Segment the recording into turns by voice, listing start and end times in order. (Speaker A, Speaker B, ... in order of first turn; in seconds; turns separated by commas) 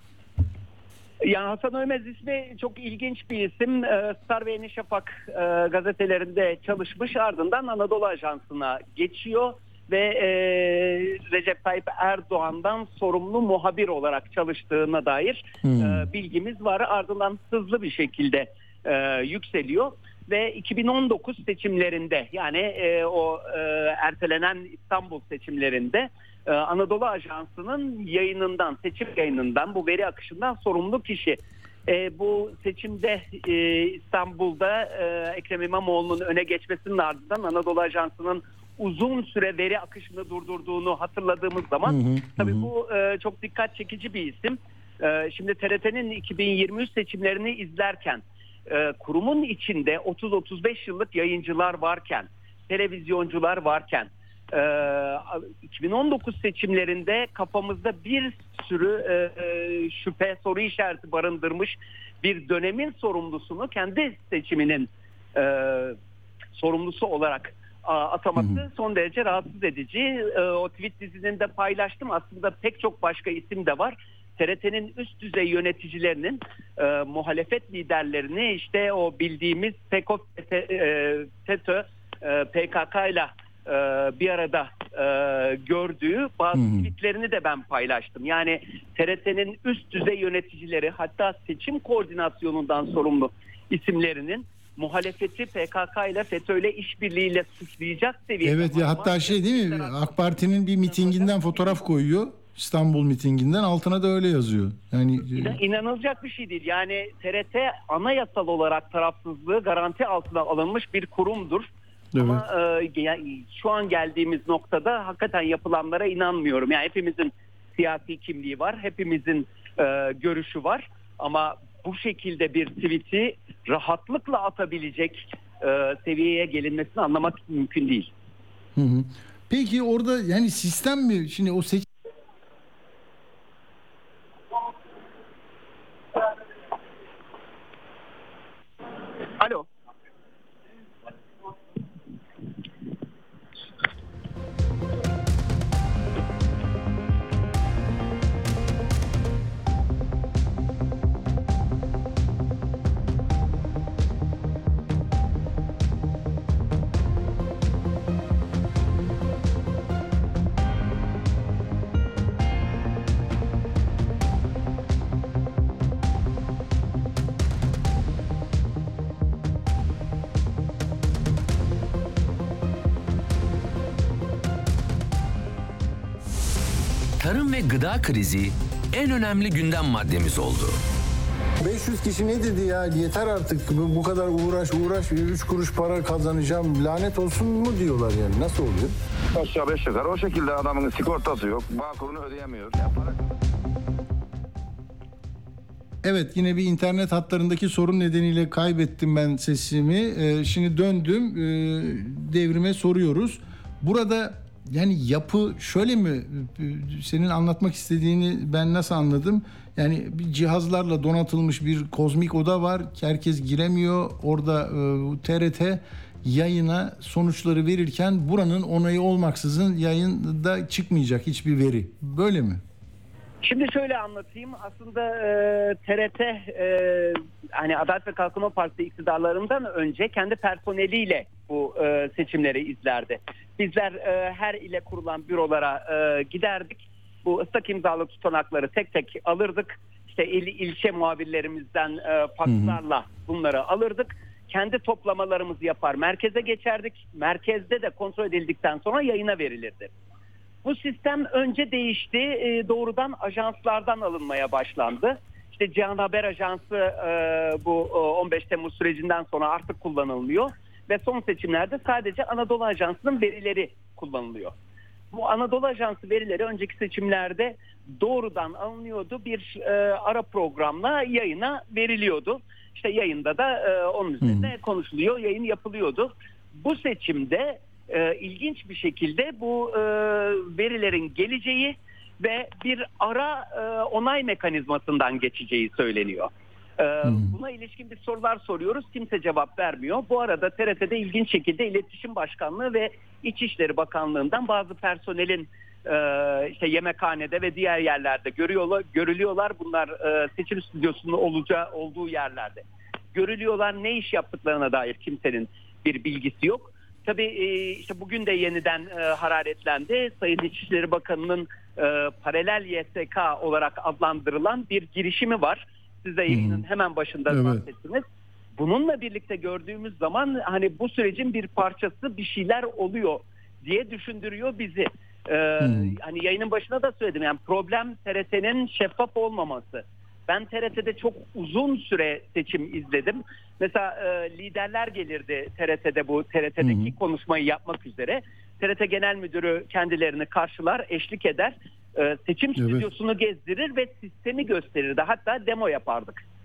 Speaker A: 1.2-66.0, Speaker B: 15.6-16.1, Speaker B: 41.9-42.7, Speaker A: 66.5-100.2, Speaker B: 68.4-68.6, Speaker B: 86.5-86.9, Speaker B: 98.4-105.6, Speaker A: 100.9-101.8, Speaker A: 105.3-128.1, Speaker B: 112.1-112.4, Speaker B: 128.8-131.9, Speaker C: 177.2-180.7, Speaker B: 181.6-188.9, Speaker D: 189.3-193.2, Speaker B: 196.0-222.6, Speaker A: 223.4-249.9, Speaker B: 242.4-242.8, Speaker A: 250.6-264.5, Speaker A: 265.1-318.0, Speaker B: 274.2-274.5, Speaker B: 287.0-287.4, Speaker B: 316.3-316.6, Speaker B: 317.3-317.6, Speaker A: 318.6-346.2, Speaker B: 325.6-325.9, Speaker B: 336.6-336.9, Speaker B: 342.6-342.9